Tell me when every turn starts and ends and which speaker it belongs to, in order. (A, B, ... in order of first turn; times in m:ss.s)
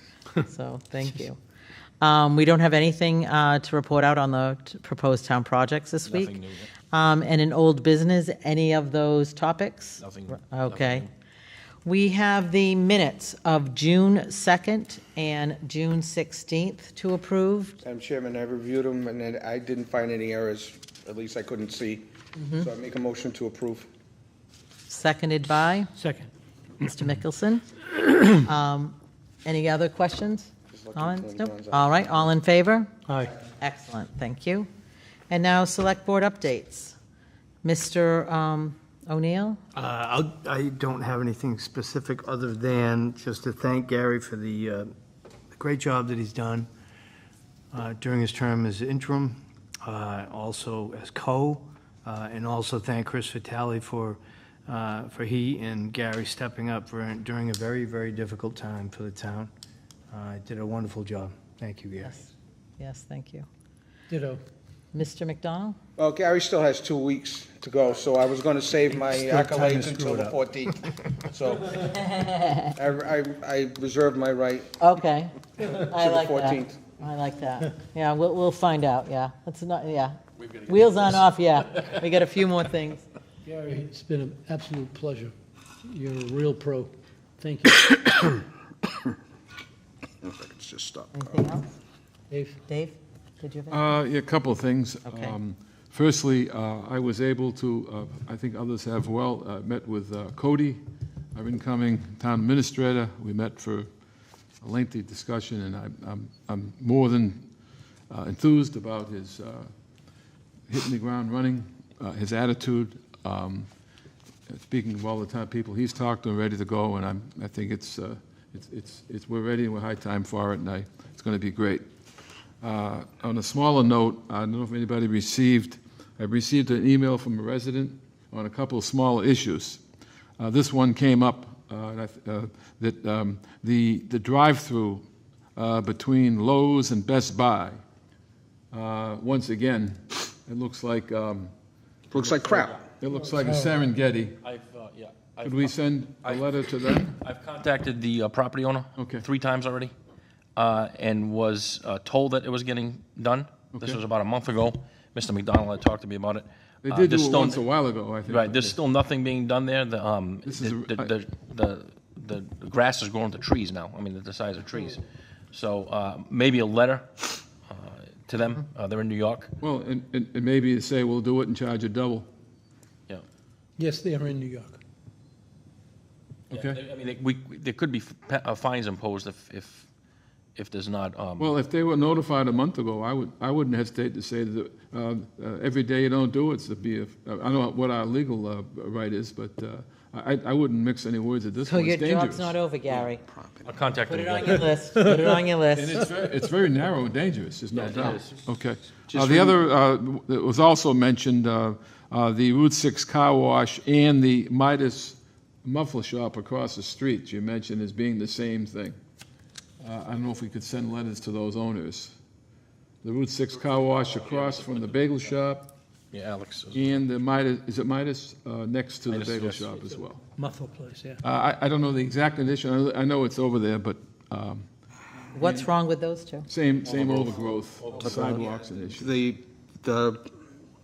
0:00.4-0:01.4 A
0:02.0-0:06.4 A
0:06.0-0:06.7 B
0:06.9-0:11.1 A
0:10.0-0:11.1 B
0:11.8-0:17.8 A
0:17.8-0:23.9 C
0:24.9-0:25.9 A
0:26.0-0:26.3 D
0:26.8-0:27.6 A
0:28.2-0:32.9 A
0:30.7-0:32.3 C
0:33.6-0:34.7 A
0:35.3-0:37.0 A
0:37.6-0:39.6 A
0:39.7-0:44.9 E
0:45.5-0:46.7 E
0:47.7-0:59.5 E
1:00.1-1:02.3 E
1:02.8-1:03.4 A
1:04.1-1:04.4 D
1:04.9-1:05.8 A
1:06.0-1:11.9 C
1:09.0-1:10.3 E
1:11.9-1:12.7 A
1:12.7-1:14.7 C
1:14.8-1:23.0 A
1:15.7-1:16.8 C
1:23.4-1:28.4 D
1:30.2-1:31.4 C
1:31.1-1:31.7 A
1:32.3-1:32.6 D
1:32.6-1:33.9 A
1:33.7-1:40.8 F
1:35.1-1:35.4 A
1:41.3-1:43.9 F
1:44.6-1:47.4 F
1:48.1-1:49.7 F
1:50.7-1:53.7 F
1:54.5-2:01.8 F
2:02.6-2:09.8 F
2:10.4-2:17.8 F
2:18.7-2:21.5 F
2:22.1-2:22.8 C
2:22.1-2:22.5 F
2:22.5-2:22.8 B
2:23.0-2:24.4 F
2:23.4-2:23.8 D
2:24.4-2:29.9 B
2:25.4-2:27.2 F
2:29.0-2:29.2 F
2:30.6-2:37.6 B
2:33.7-2:34.0 F
2:36.8-2:38.8 F
2:38.2-2:49.5 B
2:40.4-2:41.1 F
2:49.6-2:52.3 F
2:53.8-2:54.8 D
2:56.5-2:56.8 F
2:56.5-2:59.9 B
3:00.6-3:01.5 B
3:01.4-3:12.5 F
3:11.6-3:13.2 A
3:13.0-3:13.7 C
3:13.6-3:14.7 B
3:14.0-3:16.1 A
3:15.7-3:29.0 F
3:17.7-3:18.4 B
3:19.0-3:19.6 B
3:29.8-3:32.2 F
3:33.0-3:35.7 F
3:33.9-3:35.2 B
3:36.1-3:37.0 B
3:36.7-3:40.2 F
3:39.1-3:39.8 B
3:40.4-3:41.2 D
3:41.2-3:44.6 F
3:45.3-3:46.5 A
3:45.4-3:45.6 F
3:46.5-3:49.2 F
3:46.8-3:48.5 B
3:48.1-3:48.4 C
3:48.9-3:50.2 C